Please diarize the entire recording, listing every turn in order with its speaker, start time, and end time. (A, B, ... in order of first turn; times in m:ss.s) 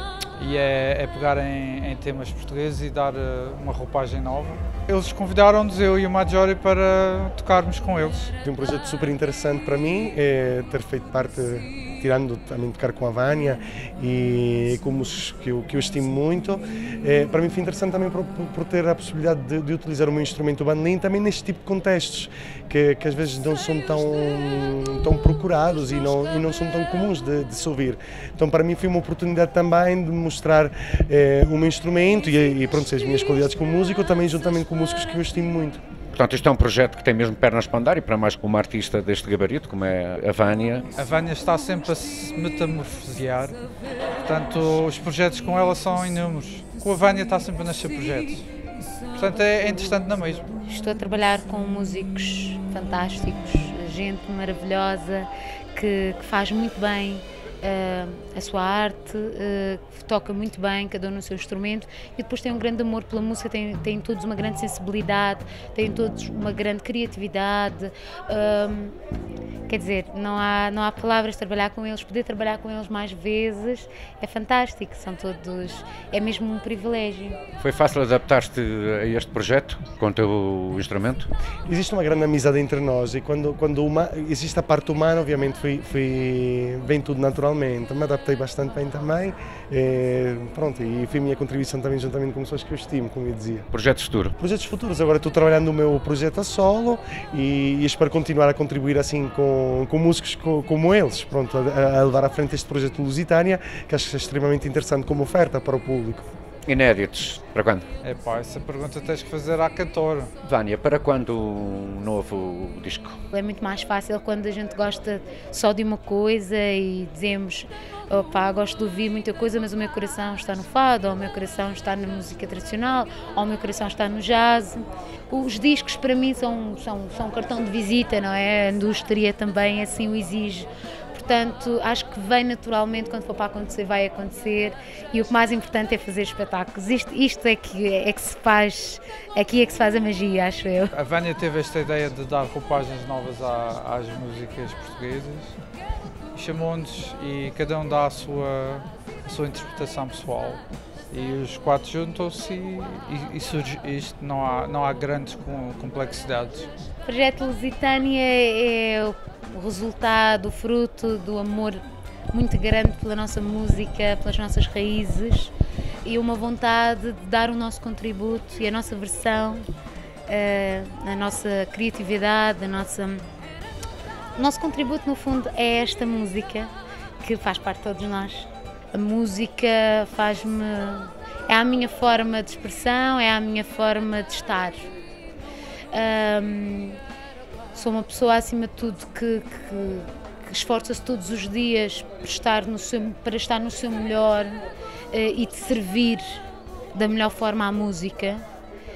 0:00.3-0:08.3 A
0:08.4-0:35.8 B
0:36.1-0:40.9 C
0:41.0-0:43.6 A
0:44.2-0:48.5 A
0:49.1-0:50.6 A
0:50.6-1:08.9 D
1:09.7-1:17.4 D
1:17.6-1:21.3 C
1:21.6-1:33.7 B
1:33.7-1:34.3 C
1:34.4-1:46.3 B
1:46.6-1:47.8 C
1:48.0-1:50.3 A
1:50.4-1:53.2 C
1:53.3-2:20.9 D
2:20.9-2:25.6 A
2:26.3-2:36.7 A
2:37.0-2:45.5 D
2:46.0-2:49.6 D
2:50.3-2:53.2 D
2:54.4-3:04.9 D
3:05.9-3:07.0 D
3:07.7-3:16.4 D
3:16.9-3:18.4 D